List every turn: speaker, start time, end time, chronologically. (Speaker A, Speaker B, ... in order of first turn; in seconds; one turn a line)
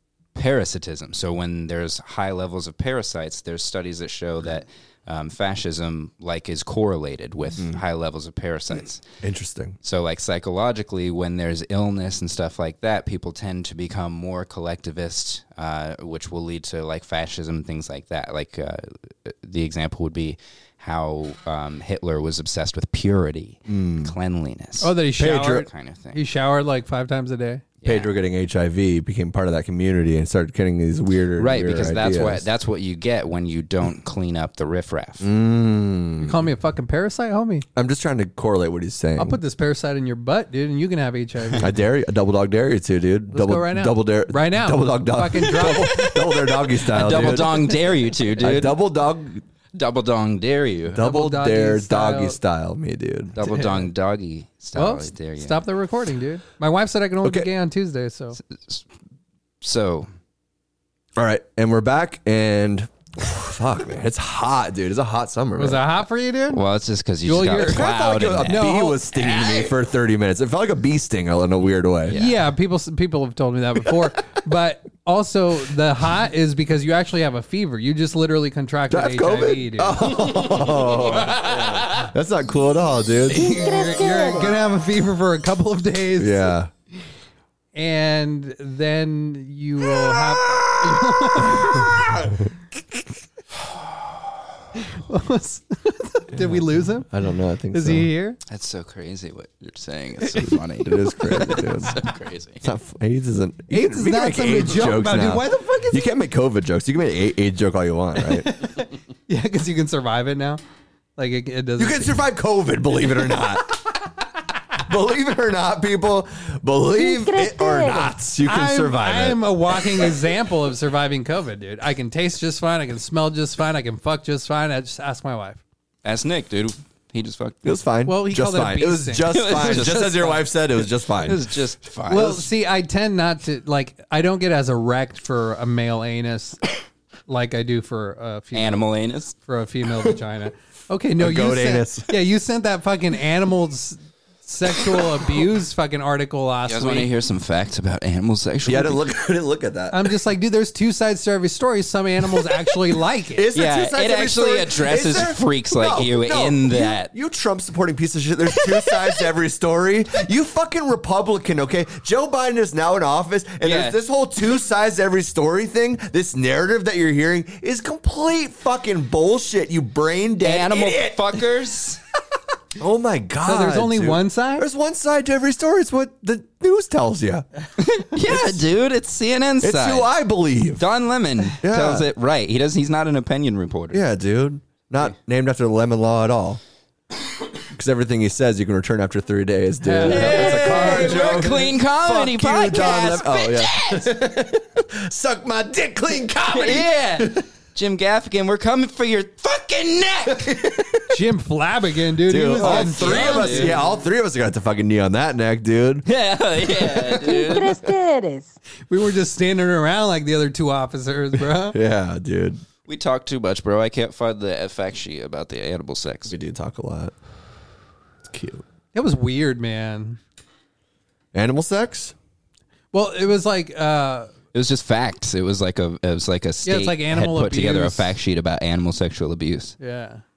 Speaker A: 0.3-9.0
Speaker B: 9.2-9.8
Speaker A: 9.8-26.2
Speaker B: 23.7-24.1
Speaker C: 24.8-27.6
Speaker B: 25.2-25.6
Speaker A: 27.8-28.1
Speaker B: 27.8-32.5
Speaker A: 31.4-35.3
Speaker B: 35.2-36.4
Speaker C: 36.2-37.6
Speaker B: 37.8-39.4
Speaker C: 39.2-41.7
Speaker B: 41.6-49.4
Speaker C: 43.3-46.2
Speaker A: 46.9-48.8
Speaker A: 49.7-51.0
Speaker B: 50.9-53.4
Speaker C: 51.0-52.4
Speaker A: 53.4-55.6
Speaker C: 53.5-53.8
Speaker C: 54.8-58.4
Speaker B: 57.2-57.5
Speaker A: 58.5-58.9
Speaker A: 59.6-60.1
Speaker B: 61.2-65.8
Speaker C: 65.6-66.6
Speaker A: 66.5-68.7
Speaker C: 67.2-69.6
Speaker B: 67.6-72.2
Speaker A: 72.1-72.4
Speaker C: 72.1-80.9
Speaker B: 78.9-83.5
Speaker A: 81.1-81.8
Speaker C: 83.3-86.5
Speaker D: 83.4-84.6
Speaker B: 86.2-86.7
Speaker C: 87.8-92.3
Speaker C: 94.8-97.1
Speaker B: 97.1-98.1
Speaker C: 97.7-98.4
Speaker A: 98.5-102.6
Speaker B: 100.3-102.0
Speaker B: 102.6-108.5
Speaker C: 103.7-106.1
Speaker C: 108.3-110.6
Speaker C: 111.2-112.2
Speaker B: 111.8-113.8
Speaker B: 114.8-120.1
Speaker D: 116.9-118.2
Speaker C: 118.4-125.6
Speaker A: 126.0-127.8
Speaker B: 127.6-131.4
Speaker C: 128.1-130.4
Speaker A: 129.3-130.2
Speaker A: 131.2-132.5
Speaker C: 132.1-136.6
Speaker C: 137.3-147.1
Speaker A: 138.5-139.3
Speaker B: 141.2-142.1
Speaker A: 146.7-149.0
Speaker B: 148.7-150.1
Speaker C: 149.9-153.5
Speaker B: 153.3-171.4
Speaker A: 153.6-157.1
Speaker A: 163.6-164.0
Speaker A: 170.4-172.0
Speaker B: 172.8-177.5
Speaker C: 173.5-174.7
Speaker A: 177.8-180.1
Speaker B: 178.2-178.6
Speaker B: 179.6-180.9
Speaker A: 180.8-184.0
Speaker B: 181.6-182.1
Speaker B: 183.9-186.6
Speaker B: 187.7-197.4
Speaker C: 189.8-191.3
Speaker A: 190.0-194.1
Speaker A: 196.5-200.6
Speaker B: 200.2-201.2
Speaker C: 201.1-203.8
Speaker B: 202.3-206.1
Speaker A: 202.6-203.9
Speaker A: 206.1-207.8
Speaker B: 206.7-207.2
Speaker D: 207.2-208.5
Speaker C: 208.9-211.8
Speaker B: 211.7-212.6
Speaker A: 212.9-216.4
Speaker B: 216.3-217.2
Speaker B: 218.2-218.7
Speaker C: 218.9-220.2
Speaker B: 221.3-222.1
Speaker C: 222.9-224.3
Speaker A: 224.5-229.8
Speaker C: 226.7-228.1
Speaker C: 229.8-230.2